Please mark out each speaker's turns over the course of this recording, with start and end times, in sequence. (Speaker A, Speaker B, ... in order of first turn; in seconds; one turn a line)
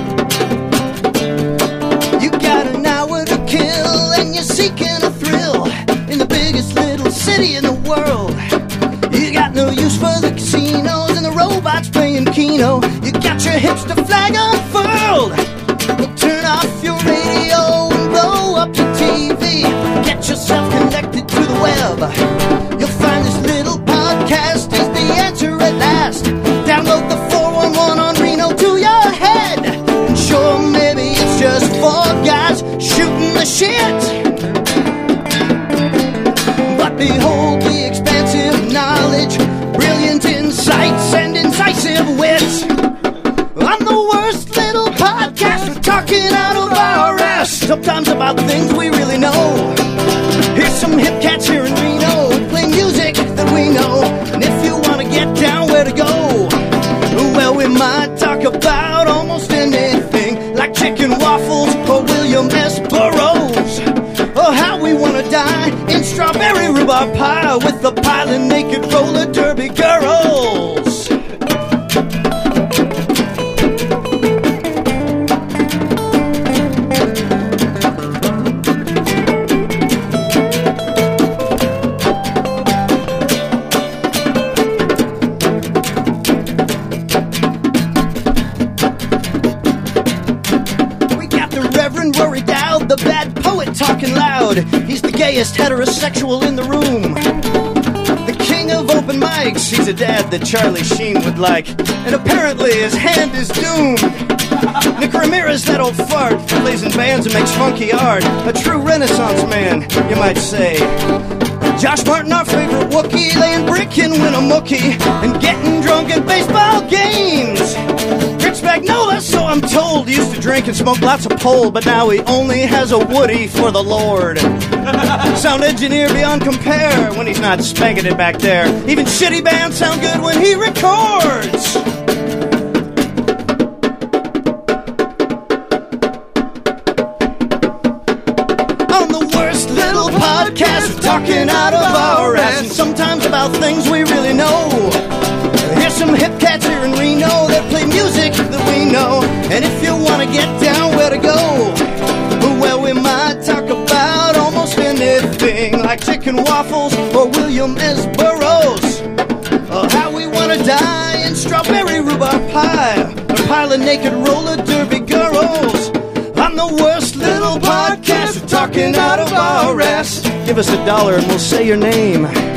Speaker A: 2.1-8.4
Speaker A: 9.1-22.1
Speaker A: 22.7-34.4
Speaker A: 36.6-42.7
Speaker A: 43.5-49.8
Speaker A: 50.5-71.1
Speaker A: 91.1-97.2
Speaker A: 98.2-111.0
Speaker A: 111.7-117.8
Speaker A: 118.3-131.8
Speaker A: 138.9-159.1
Speaker A: 159.7-172.3